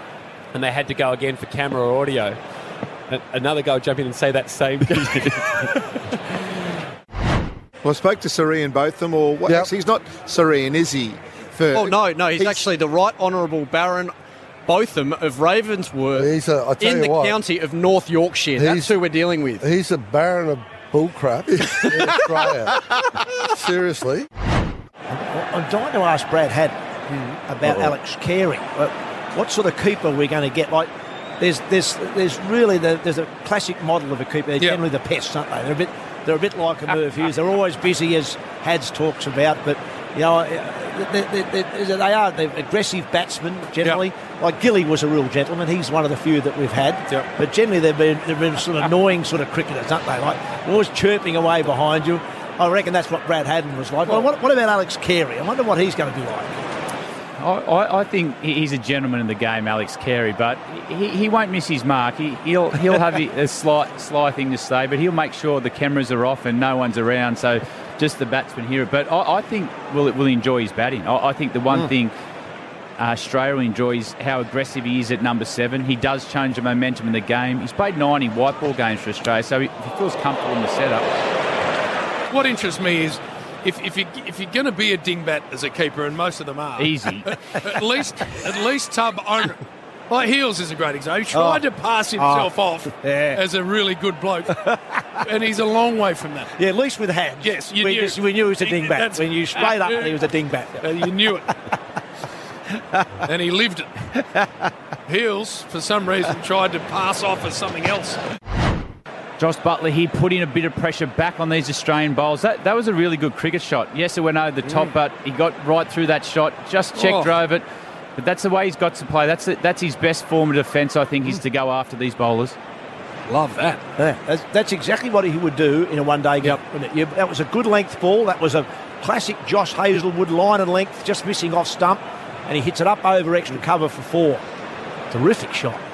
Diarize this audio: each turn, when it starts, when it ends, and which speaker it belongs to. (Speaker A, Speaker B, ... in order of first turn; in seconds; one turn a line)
Speaker A: 0.5-2.4
Speaker A: 3.1-6.2
Speaker B: 7.8-12.7
Speaker C: 11.7-14.1
Speaker C: 14.7-19.6
Speaker D: 16.1-17.4
Speaker D: 18.6-18.9
Speaker D: 19.6-24.3
Speaker E: 25.1-26.8
Speaker E: 27.4-56.5
Speaker F: 57.4-72.1
Speaker F: 73.0-81.1
Speaker G: 82.3-94.6
Speaker F: 86.8-87.3
Speaker E: 91.3-91.6
Speaker E: 92.2-93.4
Speaker G: 95.2-96.5
Speaker E: 96.5-100.8
Speaker G: 97.4-100.2
Speaker G: 100.8-101.5
Speaker G: 103.2-104.0
Speaker G: 105.1-108.2
Speaker F: 109.4-117.6
Speaker G: 116.9-117.3
Speaker F: 118.2-122.5
Speaker G: 123.3-123.8
Speaker E: 124.0-134.4
Speaker E: 135.1-135.8